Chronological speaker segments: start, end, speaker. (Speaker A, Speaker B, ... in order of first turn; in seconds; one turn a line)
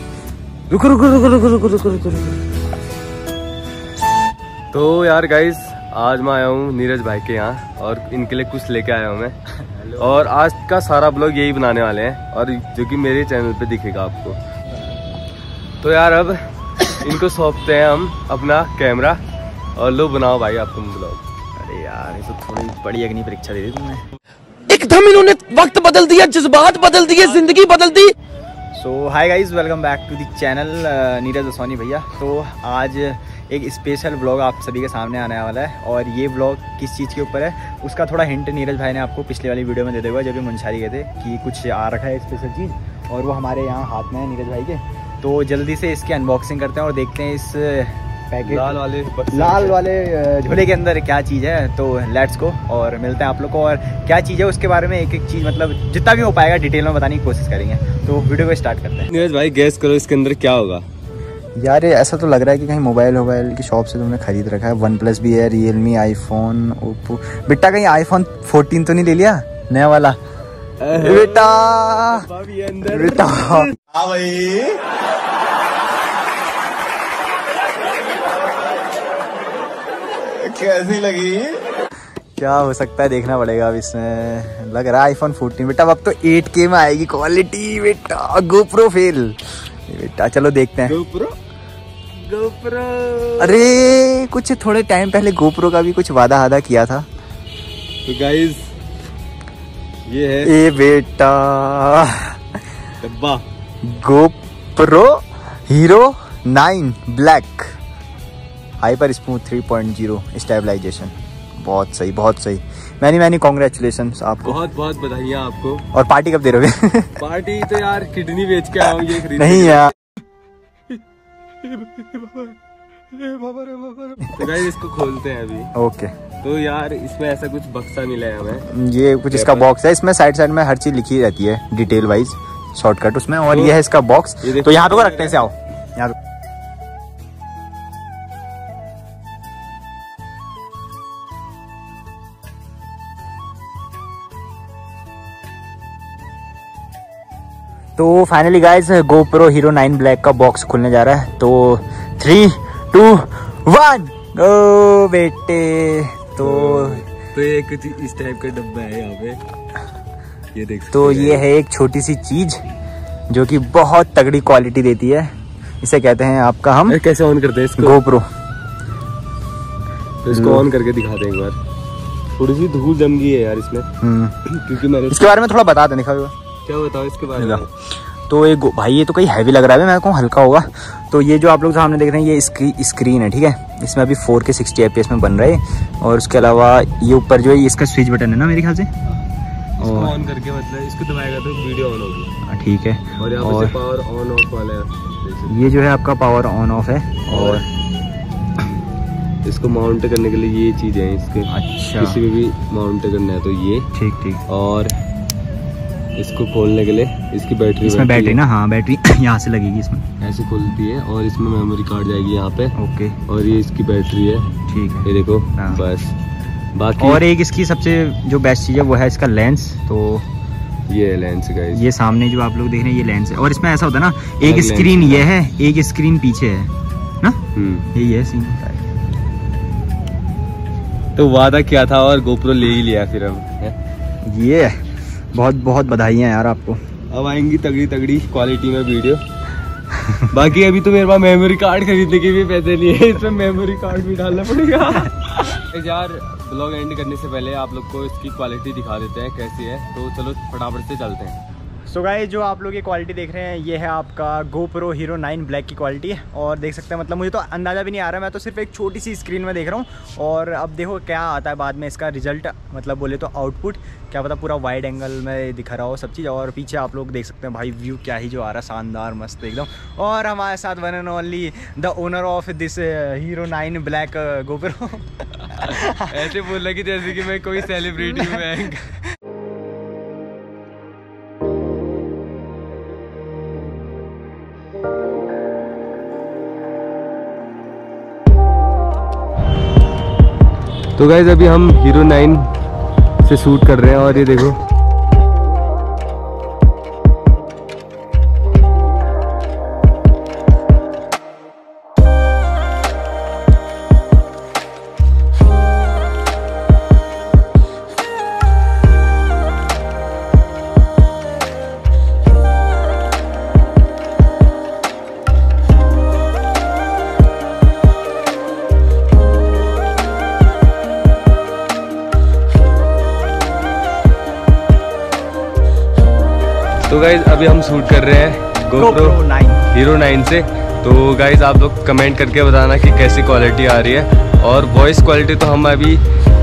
Speaker A: 0.7-2.4
Speaker A: 4.7-9.3
Speaker A: 10.0-14.4
Speaker A: 15.8-19.2
Speaker A: 19.8-21.2
Speaker B: 21.6-24.0
Speaker C: 24.7-28.1
Speaker B: 28.7-48.8
Speaker A: 48.4-49.8
Speaker B: 49.3-59.1
Speaker A: 59.1-60.8
Speaker B: 61.5-70.2
Speaker A: 70.8-74.8
Speaker B: 70.9-72.3
Speaker B: 72.8-73.7
Speaker A: 80.4-81.6
Speaker B: 82.4-91.0
Speaker A: 90.8-91.4
Speaker A: 92.2-93.8
Speaker B: 93.4-97.1
Speaker A: 98.0-98.6
Speaker A: 100.1-100.5
Speaker B: 100.4-102.4
Speaker A: 103.0-103.4
Speaker B: 103.8-107.8
Speaker B: 108.8-114.6
Speaker A: 114.4-115.8
Speaker B: 115.9-117.1
Speaker A: 117.2-119.9
Speaker B: 119.0-119.9
Speaker A: 121.6-122.5
Speaker A: 123.1-125.7
Speaker B: 124.2-124.5
Speaker B: 125.7-126.1
Speaker A: 126.4-128.7
Speaker B: 128.7-136.1
Speaker A: 129.3-129.7
Speaker A: 133.5-133.8
Speaker A: 134.4-135.4
Speaker B: 148.0-157.0
Speaker A: 156.4-159.4
Speaker A: 160.5-161.4
Speaker B: 160.9-162.6
Speaker B: 163.3-165.3
Speaker B: 165.8-167.0
Speaker A: 166.9-168.0
Speaker B: 167.8-168.3
Speaker A: 170.2-171.6
Speaker B: 170.3-170.7
Speaker A: 172.3-173.9
Speaker B: 174.0-174.4
Speaker A: 174.4-175.3
Speaker B: 175.1-176.3
Speaker A: 176.7-177.7
Speaker B: 177.3-177.7
Speaker B: 178.3-188.9
Speaker A: 189.8-192.3
Speaker B: 189.8-190.2
Speaker B: 192.5-193.7
Speaker A: 193.2-195.6
Speaker B: 195.5-197.7
Speaker A: 197.3-197.6
Speaker A: 199.4-203.9
Speaker B: 201.5-202.2
Speaker B: 203.9-204.4
Speaker A: 204.5-204.9
Speaker A: 206.2-208.4
Speaker B: 207.8-210.0
Speaker A: 210.2-216.1
Speaker B: 212.7-213.2
Speaker B: 214.7-215.8
Speaker A: 216.7-217.2
Speaker B: 217.0-220.2
Speaker A: 220.9-221.8
Speaker B: 221.7-227.4
Speaker A: 224.4-225.3
Speaker A: 227.5-227.9
Speaker B: 227.9-228.8
Speaker A: 231.1-233.8
Speaker B: 234.2-234.8
Speaker B: 235.3-236.8
Speaker A: 237.1-239.2
Speaker A: 240.3-251.4
Speaker B: 251.9-276.4
Speaker A: 275.5-278.9
Speaker B: 278.0-278.4
Speaker A: 290.9-292.5
Speaker A: 293.2-294.6
Speaker A: 326.8-329.2
Speaker B: 328.8-329.7
Speaker A: 329.7-336.0